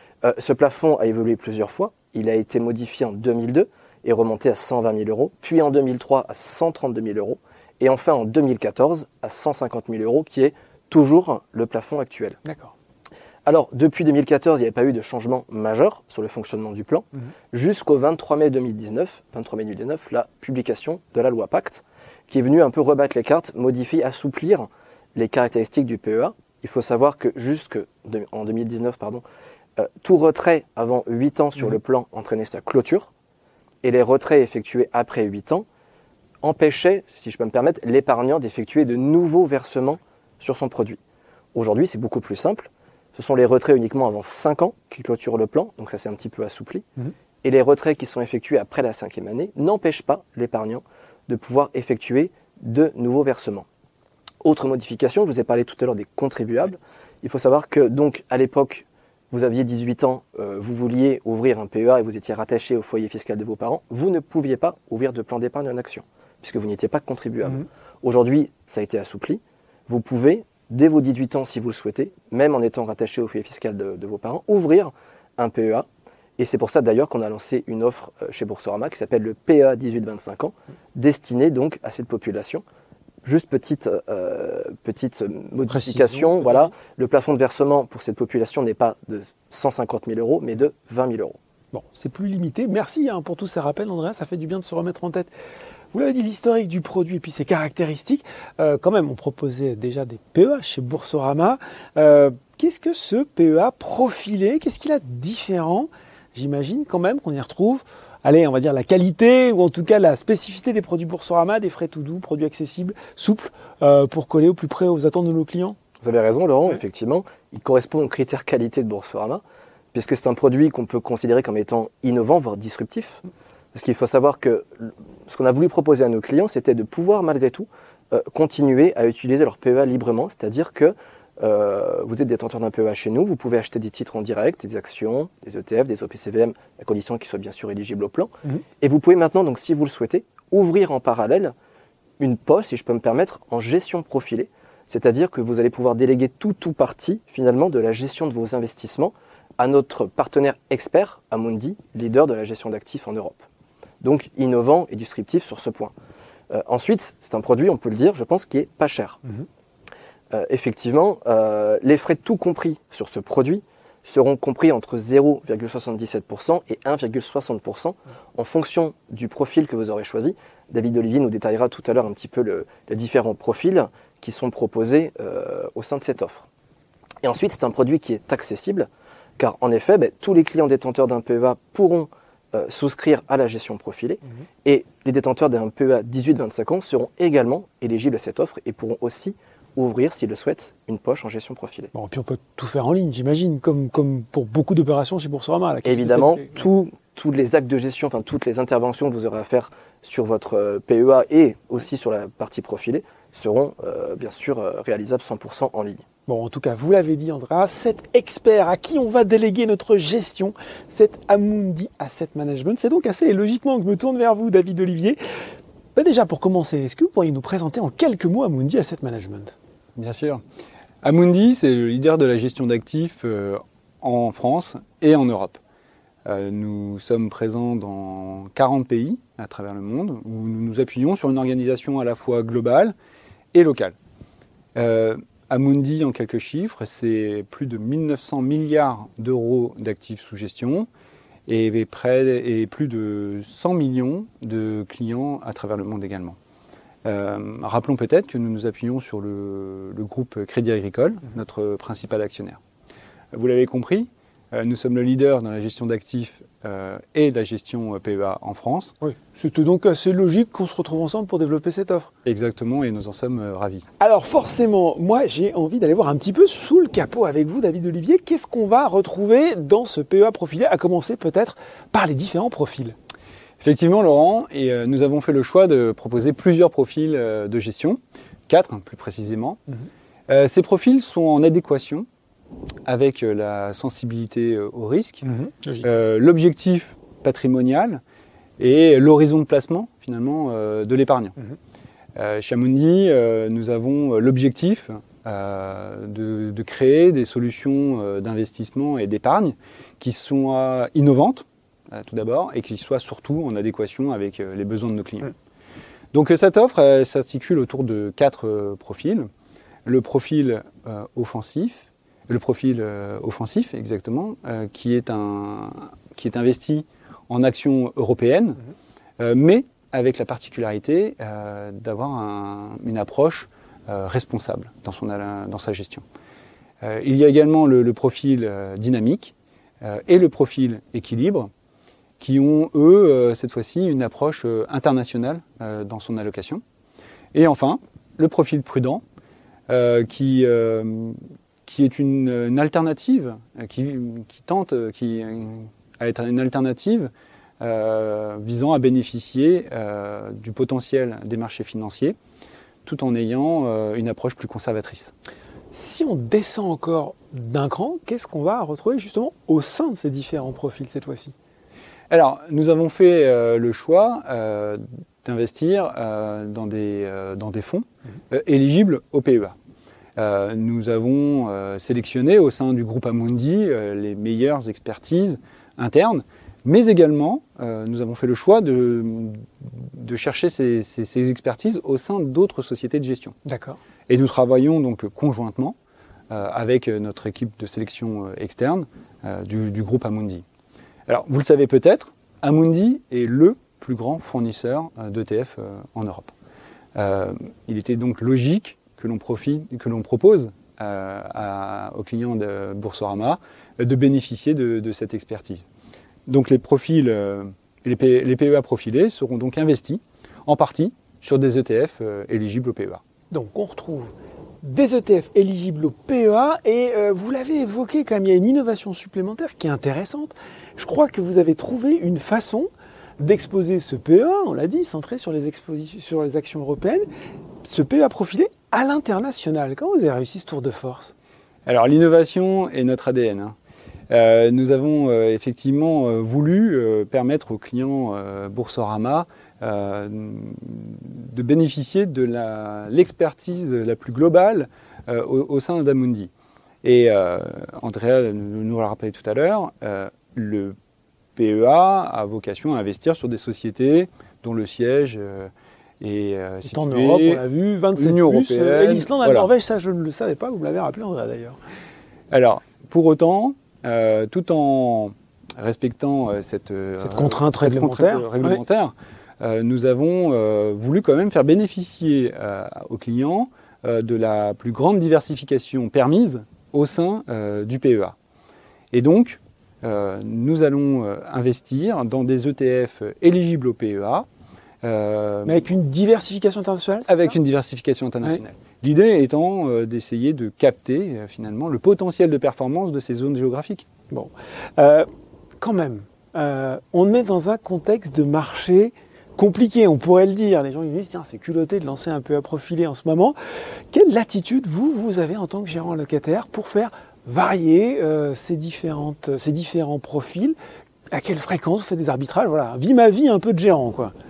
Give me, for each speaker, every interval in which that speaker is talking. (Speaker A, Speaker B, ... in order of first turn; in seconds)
Speaker A: 0.2-12.4, 13.5-29.2, 29.8-33.1, 33.8-35.7, 36.4-41.0, 41.5-46.8, 47.4-53.7, 54.4-75.9, 76.4-82.6, 83.2-91.4, 116.0-119.4, 119.9-123.2, 123.7-141.5, 142.2-153.4, 154.0-155.9, 156.5-159.2, 160.3-176.5, 177.2-191.9, 195.8-206.0
Speaker B: 12.4-12.7, 85.7-86.7, 91.7-95.3, 95.9-115.8, 191.9-196.6, 206.3-215.2, 215.9-219.5, 259.0-262.1, 264.0-272.9, 285.2-285.9, 355.7-361.3, 383.4-383.8, 413.3-427.1, 427.6-431.1, 456.6-461.6, 467.0-468.6, 485.4-487.4, 494.1-495.1, 495.6-503.4, 503.9-510.6, 511.1-514.1
Speaker C: 219.9-220.4, 221.0-225.6, 226.2-232.9, 233.5-233.9, 234.8-240.9, 241.5-246.4, 247.1-252.6, 253.3-258.9, 262.2-263.9, 273.6-279.6, 280.3-282.1, 282.9-285.3, 285.8-288.0, 288.6-291.4, 292.2-305.3, 306.1-309.3, 309.9-318.6, 319.2-326.0, 326.8-331.5, 332.2-336.6, 337.3-339.0, 339.7-352.2, 352.9-355.1, 362.1-369.6, 370.2-383.3, 384.1-385.8, 386.3-390.4, 391.1-396.3, 397.0-405.7, 406.3-413.0, 431.6-433.5, 434.1-446.3, 446.8-450.8, 451.4-457.4, 458.0-459.5, 462.3-478.1, 478.9-484.2, 484.8-485.6, 487.1-493.9